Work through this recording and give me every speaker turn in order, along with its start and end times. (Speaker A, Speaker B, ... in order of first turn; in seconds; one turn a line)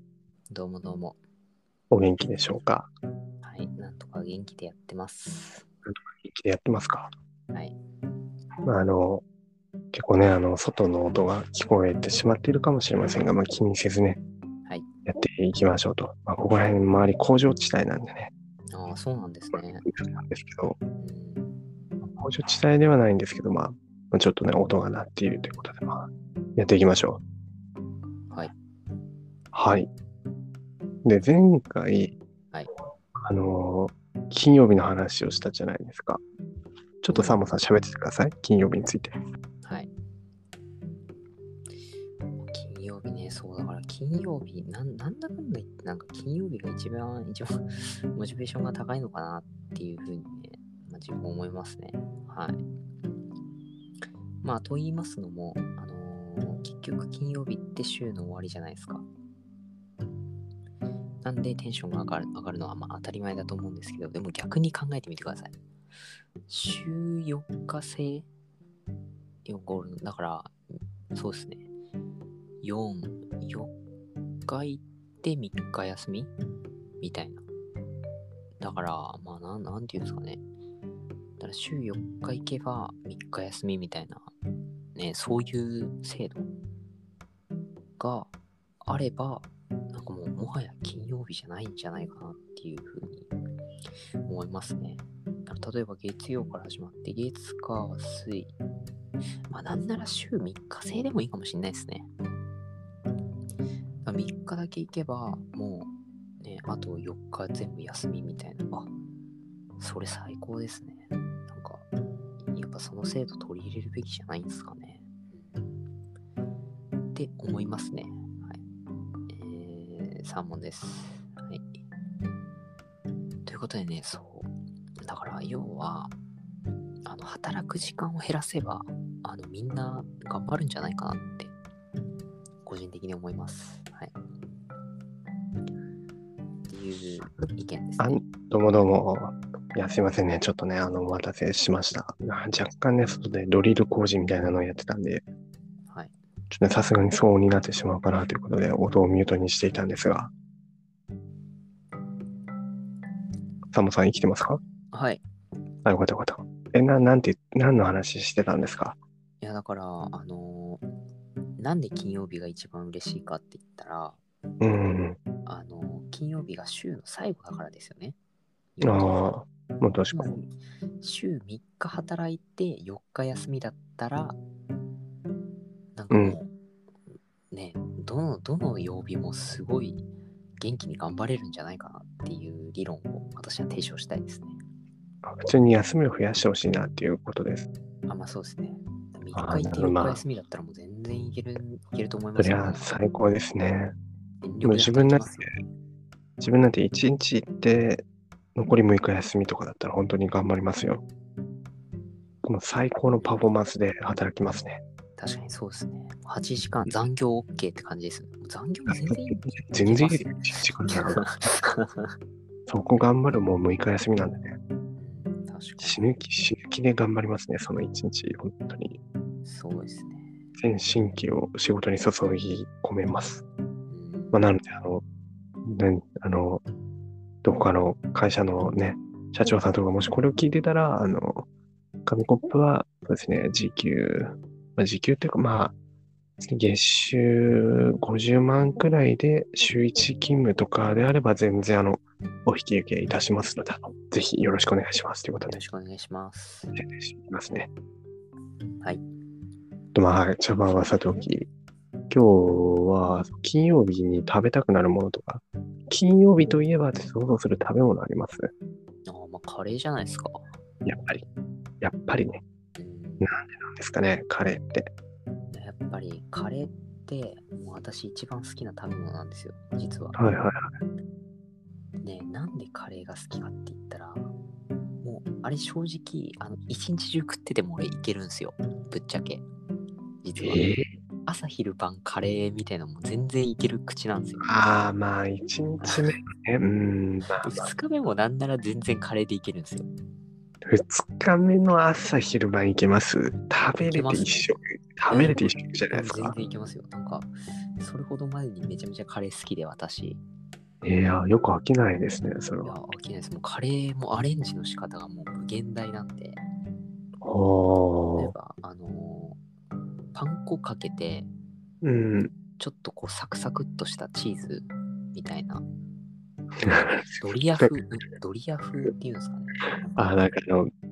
Speaker A: 0.5-1.2
Speaker B: 1.9-2.9
Speaker A: 3.4-5.7
Speaker B: 5.9-7.1
Speaker B: 8.7-9.2
Speaker B: 9.9-14.2
Speaker B: 15.1-18.3
Speaker A: 18.7-19.8
Speaker B: 19.5-20.8
Speaker A: 21.0-21.5
Speaker B: 22.0-27.2
Speaker B: 29.5-29.9
Speaker B: 31.0-32.1
Speaker B: 33.2-36.2
Speaker B: 37.0-39.1
Speaker A: 37.1-37.4
Speaker A: 39.6-39.9
Speaker A: 42.5-52.6
Speaker A: 54.4-59.0
Speaker A: 61.2-65.5
Speaker A: 66.5-68.3
Speaker A: 69.4-70.5
Speaker A: 71.1-71.7
Speaker A: 72.6-73.7
Speaker A: 74.5-76.3
Speaker A: 77.0-77.4
Speaker A: 78.6-80.4
Speaker A: 81.4-84.3
Speaker A: 85.0-86.5
Speaker A: 88.0-88.3
Speaker A: 88.8-93.3
Speaker A: 94.2-98.5
Speaker A: 99.5-102.1
Speaker A: 104.0-108.9
Speaker A: 109.8-111.9
Speaker A: 112.5-115.6
Speaker A: 117.1-118.6
Speaker A: 119.3-121.8
Speaker A: 123.5-124.5
Speaker A: 125.0-126.1
Speaker A: 127.0-131.5
Speaker A: 132.6-134.1
Speaker A: 136.7-138.2
Speaker B: 138.0-145.2
Speaker B: 146.5-150.3
Speaker B: 153.7-154.6
Speaker A: 154.9-155.2
Speaker B: 155.8-159.0
Speaker A: 159.4-160.8
Speaker A: 161.6-164.2
Speaker B: 164.6-165.2
Speaker A: 165.4-168.2
Speaker A: 168.8-169.2
Speaker B: 168.8-170.4
Speaker A: 170.1-174.4
Speaker A: 175.9-176.5
Speaker B: 176.1-176.4
Speaker A: 177.5-180.0
Speaker A: 180.6-184.5
Speaker B: 185.2-187.7
Speaker A: 188.1-192.9
Speaker B: 189.3-190.2
Speaker B: 192.3-193.9
Speaker A: 194.4-195.5
Speaker B: 194.6-195.4
Speaker B: 196.4-198.0
Speaker B: 198.5-201.0
Speaker B: 202.4-204.8
Speaker A: 205.2-212.1
Speaker B: 208.9-211.5
Speaker B: 212.7-214.6
Speaker A: 215.0-216.0
Speaker B: 215.8-219.0
Speaker A: 219.4-220.3
Speaker B: 220.6-223.4
Speaker A: 223.9-224.4
Speaker B: 224.3-225.0
Speaker B: 225.7-226.6
Speaker B: 227.4-231.5
Speaker B: 232.1-235.7
Speaker B: 236.4-245.6
Speaker A: 245.5-246.8
Speaker B: 246.8-247.7
Speaker B: 249.9-251.5
Speaker B: 252.1-258.5
Speaker A: 259.1-260.5
Speaker B: 260.8-261.2
Speaker B: 261.8-262.4
Speaker A: 262.8-263.3
Speaker B: 263.2-264.9
Speaker A: 265.5-270.2
Speaker B: 270.1-270.6
Speaker A: 272.0-274.3
Speaker A: 275.0-279.4
Speaker A: 280.2-284.5
Speaker B: 280.4-280.9
Speaker B: 284.4-287.7
Speaker A: 287.4-289.9
Speaker B: 290.7-296.4
Speaker A: 293.8-294.5
Speaker A: 295.1-300.2
Speaker B: 300.8-302.8
Speaker A: 302.6-306.4
Speaker B: 307.2-308.3
Speaker A: 308.1-309.4
Speaker A: 310.1-311.3
Speaker B: 311.8-312.3
Speaker A: 312.6-315.6
Speaker B: 316.6-317.7
Speaker A: 316.6-320.0
Speaker B: 319.9-320.7